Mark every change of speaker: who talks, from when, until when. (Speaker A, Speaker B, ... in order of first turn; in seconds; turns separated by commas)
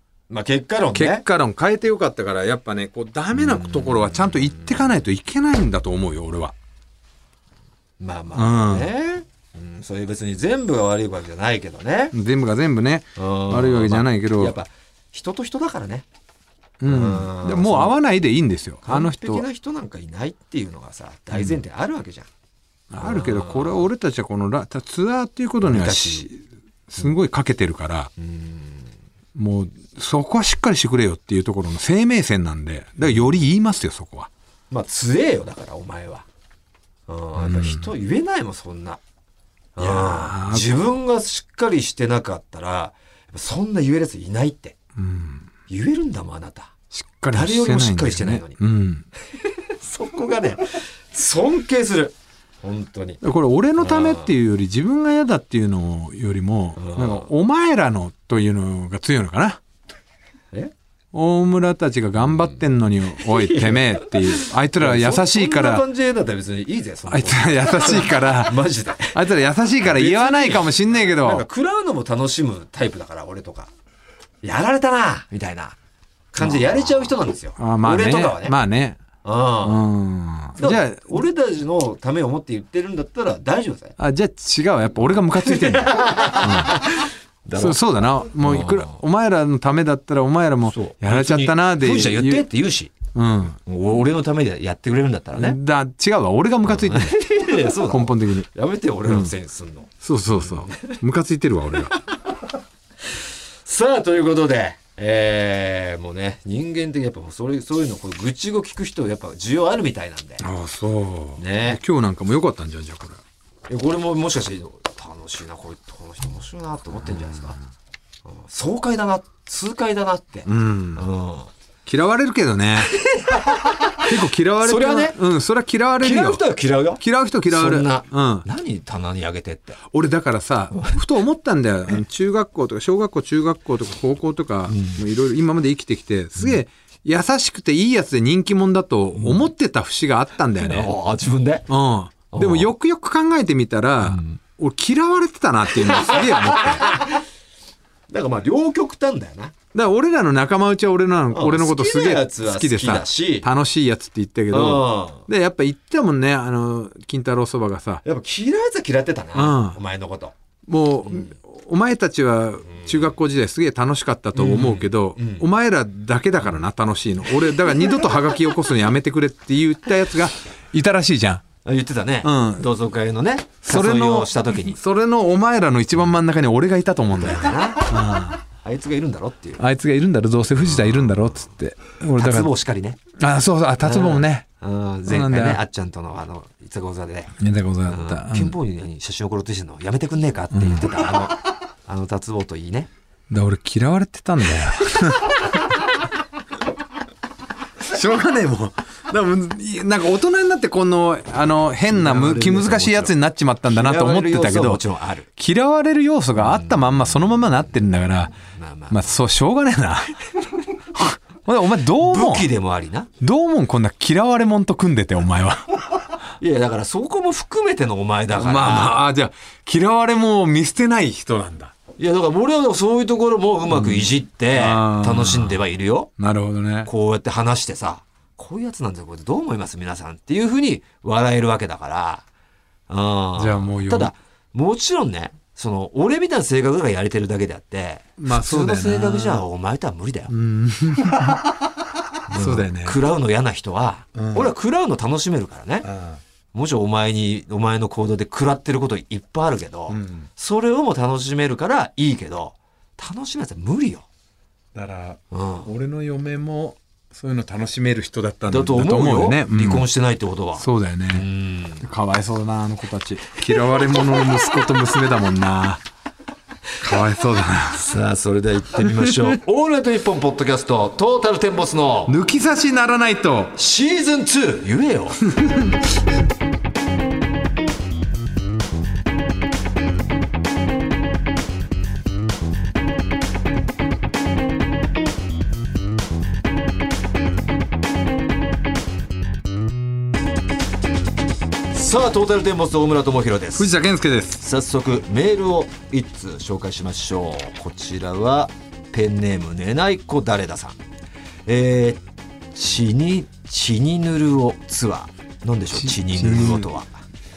Speaker A: 0.3-1.2, Speaker B: 0.9-6.5, Speaker A: 3.4-4.6, Speaker A: 8.0-12.1, Speaker B: 8.3-8.9, Speaker B: 12.1-14.6, Speaker A: 13.2-16.0, Speaker B: 16.8-19.4, Speaker A: 16.9-17.9, Speaker A: 18.9-22.3, Speaker B: 21.3-21.6, Speaker B: 22.9-28.1, Speaker A: 23.0-23.8, Speaker A: 25.6-26.3, Speaker A: 28.2-28.9, Speaker B: 29.4-34.3, Speaker A: 34.7-36.2, Speaker A: 37.1-39.0, Speaker B: 37.4-37.9, Speaker A: 39.8-44.8, Speaker B: 39.8-40.7, Speaker B: 45.0-45.5, Speaker A: 45.7-46.7, Speaker B: 46.9-49.0, Speaker A: 47.3-48.6, Speaker A: 49.7-53.2, Speaker B: 53.2-59.6, Speaker A: 53.8-54.3, Speaker A: 56.8-57.3, Speaker B: 61.1-65.8, Speaker A: 63.2-69.2, Speaker B: 67.1-71.5, Speaker A: 69.8-73.7, Speaker A: 74.4-75.8, Speaker A: 76.3-78.5, Speaker B: 77.6-79.0, Speaker A: 79.2-79.9, Speaker B: 79.6-81.2, Speaker A: 80.6-84.0, Speaker B: 84.0-86.8, Speaker A: 85.5-87.8, Speaker B: 87.5-92.5, Speaker A: 88.4-89.0, Speaker A: 90.7-92.9, Speaker B: 93.1-93.6, Speaker A: 93.7-95.6, Speaker B: 95.3-98.5, Speaker A: 96.7-101.0, Speaker B: 99.0-99.3, Speaker B: 100.0-101.9, Speaker A: 103.6-110.5, Speaker B: 110.4-113.2, Speaker A: 111.4-111.8, Speaker A: 113.7-117.6, Speaker B: 117.0-117.4, Speaker A: 118.2-121.5, Speaker B: 120.5-121.0, Speaker B: 121.9-122.9, Speaker A: 122.9-124.1, Speaker B: 123.9-126.4, Speaker A: 124.6-125.2, Speaker A: 126.0-129.8, Speaker B: 127.0-128.4, Speaker B: 129.9-140.9, Speaker A: 134.7-135.0, Speaker A: 140.6-141.7, Speaker B: 141.7-146.9, Speaker A: 142.3-142.7, Speaker A: 144.1-144.4, Speaker A: 145.9-147.2, Speaker A: 148.1-149.5, Speaker B: 149.7-158.0, Speaker A: 151.3-153.5, Speaker A: 154.5-155.2, Speaker A: 158.0-160.3, Speaker B: 159.3-159.8, Speaker B: 160.7-171.4, Speaker A: 164.4-165.4, Speaker A: 171.6-174.8, Speaker B: 172.2-172.7, Speaker B: 173.6-178.4, Speaker A: 177.1-177.9, Speaker A: 178.6-179.6, Speaker B: 179.6-182.5, Speaker A: 180.6-181.2, Speaker A: 182.2-183.0, Speaker B: 183.1-184.4, Speaker A: 183.8-187.3, Speaker B: 185.1-185.6, Speaker B: 187.4-188.6, Speaker A: 187.9-192.9, Speaker B: 190.5-191.1, Speaker B: 193.3-195.8, Speaker B: 197.8-204.8, Speaker A: 201.9-203.1, Speaker A: 203.7-205.3, Speaker B: 205.4-208.4, Speaker A: 206.4-206.8, Speaker A: 208.6-209.0, Speaker B: 208.9-210.2, Speaker B: 210.9-212.5, Speaker A: 212.0-213.1, Speaker B: 213.2-216.0, Speaker A: 216.4-219.0, Speaker B: 218.3-221.7, Speaker A: 222.0-226.1, Speaker B: 223.7-225.6, Speaker B: 226.2-226.9, Speaker A: 226.8-232.2, Speaker A: 232.9-240.3, Speaker B: 233.4-234.1, Speaker B: 238.2-239.4, Speaker B: 240.3-243.0, Speaker A: 242.3-245.9, Speaker B: 244.2-244.5, Speaker B: 245.8-246.2, Speaker A: 246.5-254.1, Speaker B: 249.9-250.3, Speaker B: 254.7-259.9, Speaker A: 255.3-255.7, Speaker A: 258.5-261.9, Speaker B: 260.6-261.3, Speaker B: 261.8-265.9, Speaker B: 266.8-267.8, Speaker A: 267.7-272.2, Speaker B: 268.7-269.4, Speaker B: 272.1-273.5, Speaker A: 273.6-275.2, Speaker B: 275.2-275.9, Speaker A: 291.7-293.7, Speaker B: 293.5-294.4, Speaker A: 294.4-300.8, Speaker A: 301.5-302.0, Speaker A: 302.5-307.0, Speaker B: 305.7-306.7